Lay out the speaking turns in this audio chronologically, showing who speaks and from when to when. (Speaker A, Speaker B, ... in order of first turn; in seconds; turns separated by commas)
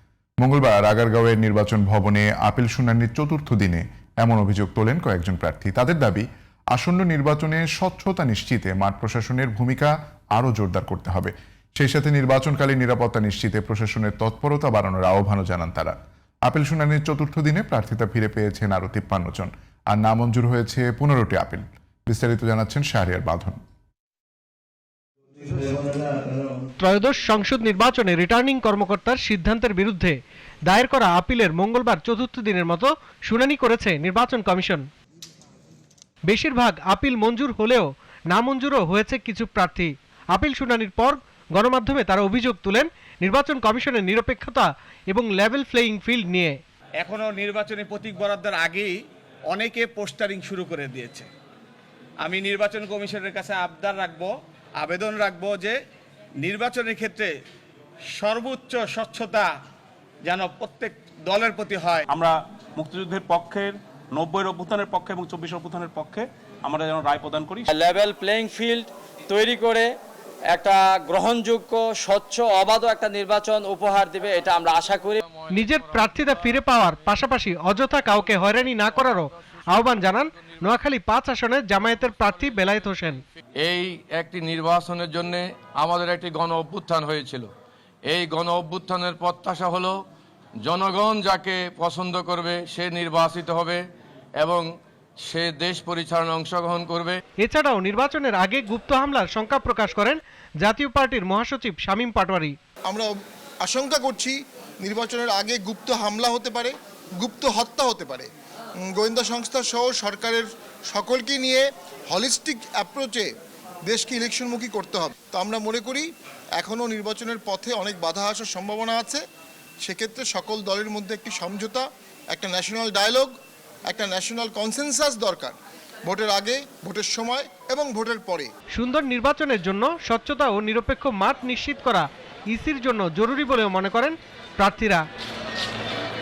Speaker A: 0.4-23.6, Speaker B: 26.8-34.9, Speaker B: 36.3-46.6, Speaker C: 47.0-49.0, Speaker C: 49.5-51.3, Speaker C: 52.2-55.8, Speaker C: 56.4-57.3, Speaker C: 58.1-59.5, Speaker C: 60.2-62.0, Speaker D: 62.1-67.8, Speaker E: 67.7-69.9, Speaker E: 70.5-75.2, Speaker B: 75.5-83.2, Speaker F: 83.6-87.5, Speaker F: 88.1-90.0, Speaker F: 90.6-93.8, Speaker F: 94.4-94.7, Speaker F: 95.2-97.2, Speaker B: 97.4-102.5, Speaker G: 103.6-108.3, Speaker G: 108.8-113.3, Speaker G: 113.9-119.2, Speaker G: 119.8-123.3, Speaker G: 123.9-128.5, Speaker B: 128.7-135.0